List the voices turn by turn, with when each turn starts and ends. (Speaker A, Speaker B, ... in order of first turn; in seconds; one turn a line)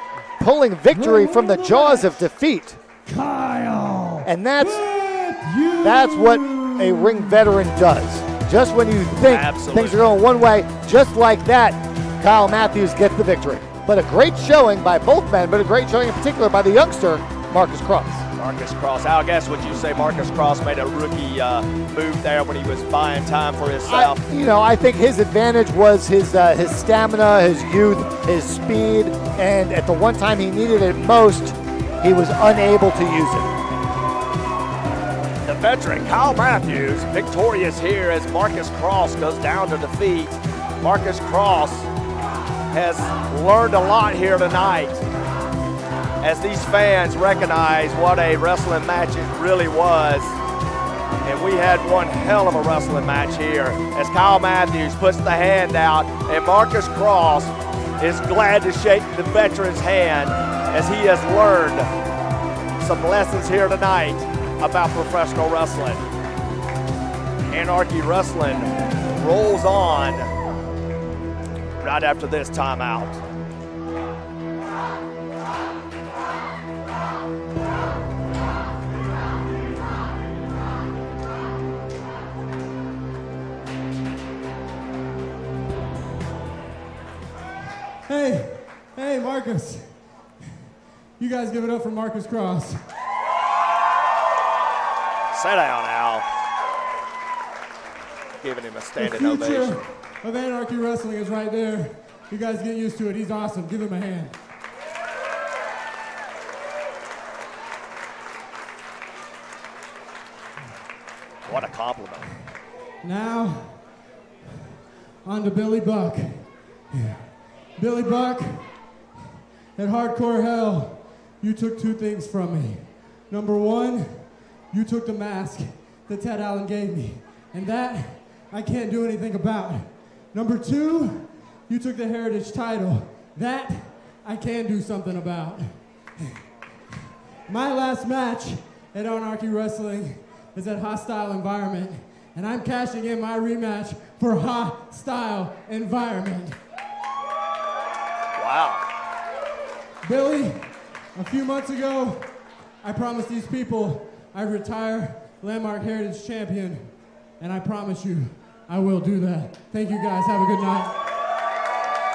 Speaker A: 0.4-2.8
Speaker B: 0.9-2.0
Speaker B: 3.1-7.4
Speaker A: 4.2-4.8
Speaker A: 5.8-18.2
Speaker C: 9.2-10.1
Speaker C: 18.4-24.2
Speaker A: 23.9-33.5
Speaker C: 35.4-41.9
Speaker C: 42.7-45.0
Speaker C: 46.2-50.4
Speaker C: 51.2-61.9
Speaker C: 62.8-66.0
Speaker C: 67.5-70.3
Speaker C: 71.8-73.2
Speaker B: 88.1-90.5
Speaker B: 91.2-92.9
Speaker C: 95.3-96.2
Speaker C: 98.4-99.8
Speaker B: 99.0-104.3
Speaker C: 111.5-112.3
Speaker B: 113.0-113.9
Speaker B: 115.2-118.8
Speaker B: 119.7-136.4
Speaker B: 137.5-146.6
Speaker C: 148.4-148.8
Speaker B: 150.0-160.9